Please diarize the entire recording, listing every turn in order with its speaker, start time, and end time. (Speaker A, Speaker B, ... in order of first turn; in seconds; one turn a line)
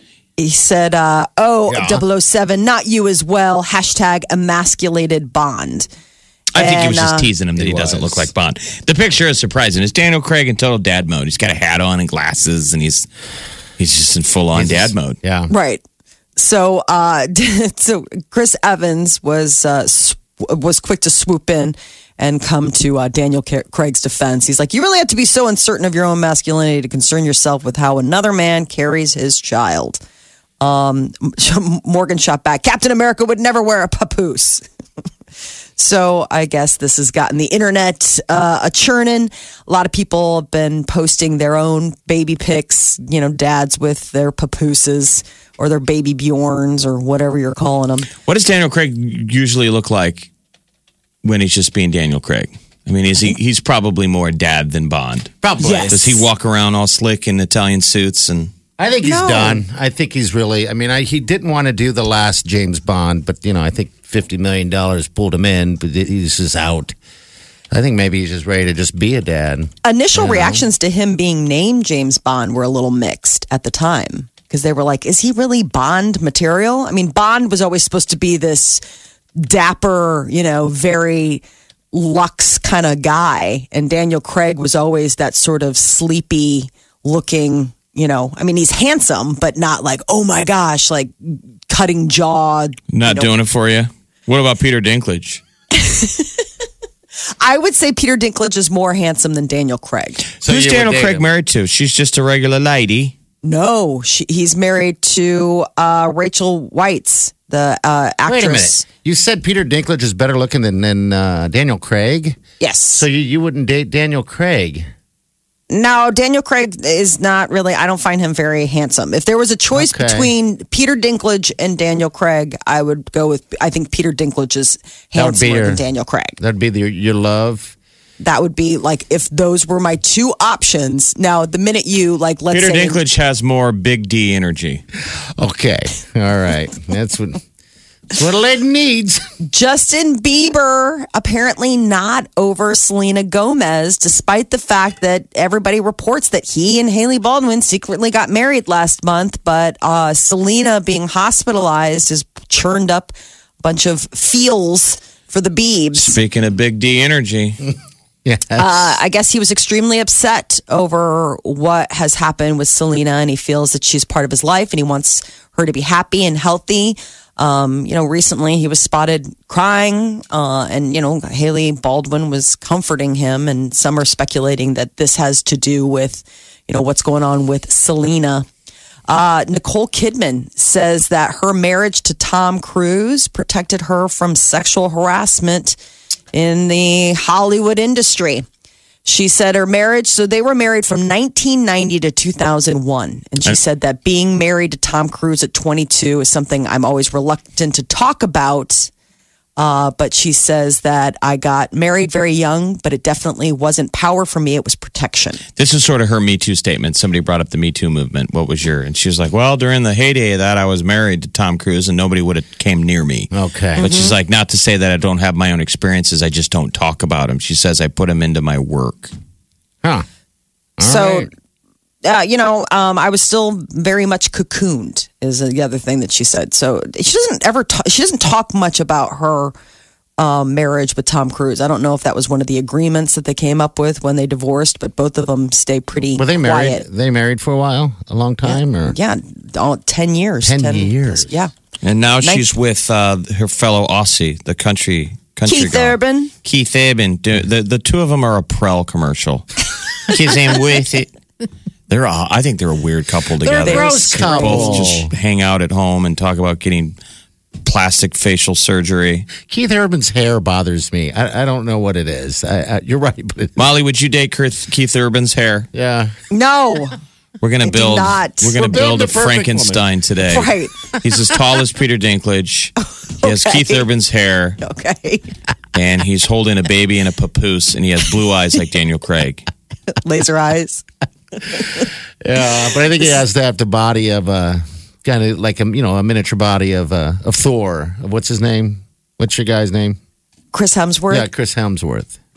Speaker A: 0.4-5.9
Speaker B: 1.7-2.0
Speaker C: 6.5-13.1
Speaker A: 6.6-7.3
Speaker B: 7.6-8.3
Speaker C: 13.8-15.2
Speaker B: 14.5-15.5
Speaker A: 15.5-15.8
Speaker A: 16.4-30.0
Speaker A: 30.6-34.6
Speaker A: 35.8-48.1
Speaker C: 48.2-50.3
Speaker C: 51.2-55.3
Speaker B: 55.4-56.2
Speaker A: 55.6-56.2
Speaker C: 55.9-58.5
Speaker B: 58.8-67.0
Speaker A: 59.0-59.6
Speaker B: 67.7-70.7
Speaker A: 69.8-78.8
Speaker A: 79.4-93.3
Speaker C: 92.9-95.4
Speaker A: 95.7-96.5
Speaker A: 97.4-100.3
Speaker B: 100.4-101.3
Speaker C: 100.4-103.2
Speaker A: 103.4-108.8
Speaker B: 108.3-112.4
Speaker A: 112.6-113.1
Speaker B: 113.0-114.9
Speaker A: 115.7-126.4
Speaker B: 119.7-120.3
Speaker B: 125.2-125.8
Speaker B: 126.4-127.8
Speaker A: 128.2-133.0
Speaker C: 132.5-134.8
Speaker B: 135.4-137.4
Speaker B: 138.1-139.2
Speaker A: 139.4-156.2
Speaker C: 155.9-157.6
Speaker B: 158.2-158.8
Speaker A: 158.6-178.5
Speaker A: 179.1-185.8
Speaker A: 186.3-188.4
Speaker A: 189.1-198.9
Speaker A: 199.6-205.4
Speaker C: 205.6-219.1
Speaker B: 213.3-213.9
Speaker A: 213.8-214.1
Speaker B: 220.8-221.3
Speaker A: 220.8-221.3
Speaker A: 222.0-229.6
Speaker A: 230.2-236.8
Speaker B: 236.2-239.0
Speaker A: 238.5-241.5
Speaker B: 240.4-241.3
Speaker C: 241.8-249.5
Speaker A: 245.5-246.3
Speaker C: 250.1-251.1
Speaker B: 250.1-251.1
Speaker C: 251.9-257.0
Speaker A: 253.4-254.9
Speaker B: 253.5-255.1
Speaker C: 257.6-259.3
Speaker B: 259.4-263.6
Speaker C: 263.6-265.7
Speaker B: 265.7-266.1
Speaker A: 266.3-266.9
Speaker C: 267.4-274.6
Speaker A: 267.6-268.5
Speaker B: 268.4-269.9
Speaker A: 270.3-270.7
Speaker A: 273.2-273.9
Speaker A: 274.6-275.2
Speaker C: 275.7-279.5
Speaker A: 279.9-280.8
Speaker A: 281.4-281.9
Speaker B: 282.2-290.0
Speaker A: 290.5-291.3
Speaker B: 291.1-292.2